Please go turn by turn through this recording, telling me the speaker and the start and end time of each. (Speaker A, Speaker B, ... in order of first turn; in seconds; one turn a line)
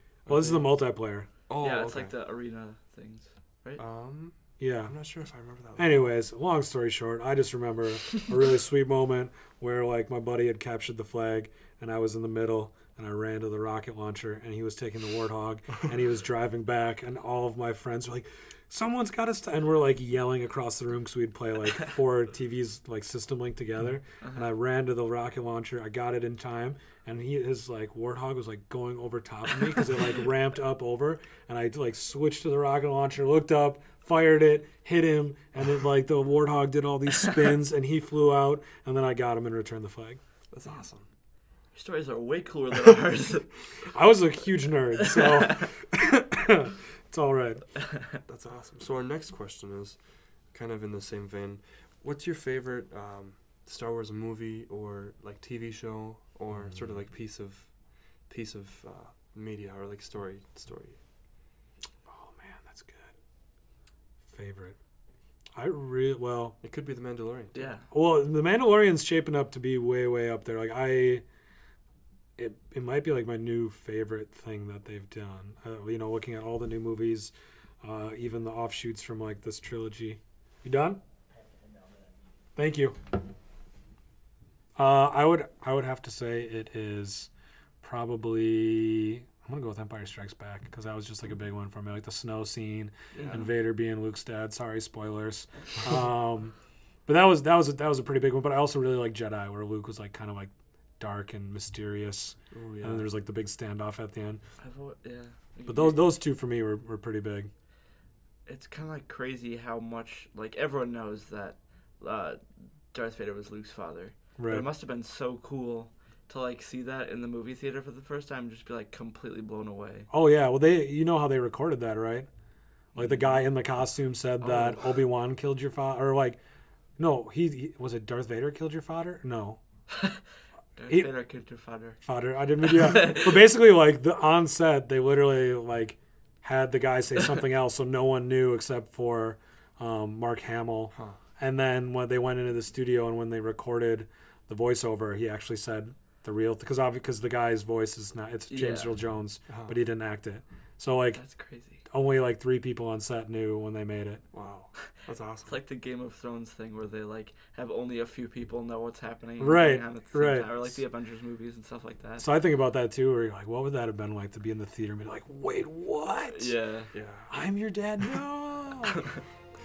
Speaker A: 0.2-0.7
Speaker B: 0.3-1.3
Speaker A: 1.5-2.1
Speaker C: 1.6-3.8
Speaker A: 3.8-6.1
Speaker B: 4.6-4.9
Speaker B: 5.8-40.2
Speaker C: 24.2-24.5
Speaker A: 40.5-41.1
Speaker C: 41.7-43.5
Speaker B: 43.9-47.6
Speaker C: 45.1-45.7
Speaker C: 47.8-48.2
Speaker A: 48.2-50.0
Speaker A: 50.5-57.7
Speaker A: 58.2-61.0
Speaker B: 62.1-63.1
Speaker B: 64.3-64.8
Speaker B: 65.5-66.6
Speaker A: 66.6-67.7
Speaker C: 67.5-67.9
Speaker B: 67.9-71.2
Speaker B: 72.4-81.0
Speaker B: 82.5-83.0
Speaker B: 84.8-87.3
Speaker B: 87.8-96.5
Speaker C: 93.1-93.5
Speaker A: 93.2-93.5
Speaker B: 97.0-104.4
Speaker A: 102.5-103.1
Speaker C: 104.6-106.0
Speaker B: 105.7-107.5
Speaker C: 108.5-112.4
Speaker C: 112.9-120.1
Speaker B: 114.4-114.7
Speaker B: 120.1-122.3
Speaker C: 122.9-123.4
Speaker B: 123.0-126.4
Speaker C: 124.4-125.0
Speaker B: 127.0-129.6
Speaker C: 129.9-130.2
Speaker C: 130.8-132.0
Speaker B: 132.0-151.2
Speaker C: 132.6-133.4
Speaker C: 148.5-148.9
Speaker A: 149.5-149.8
Speaker C: 151.1-151.8
Speaker B: 151.9-154.2
Speaker A: 154.3-155.6
Speaker C: 155.4-162.3
Speaker B: 159.4-160.8
Speaker B: 162.2-166.5
Speaker C: 166.3-166.9
Speaker A: 166.9-167.3
Speaker B: 167.3-169.1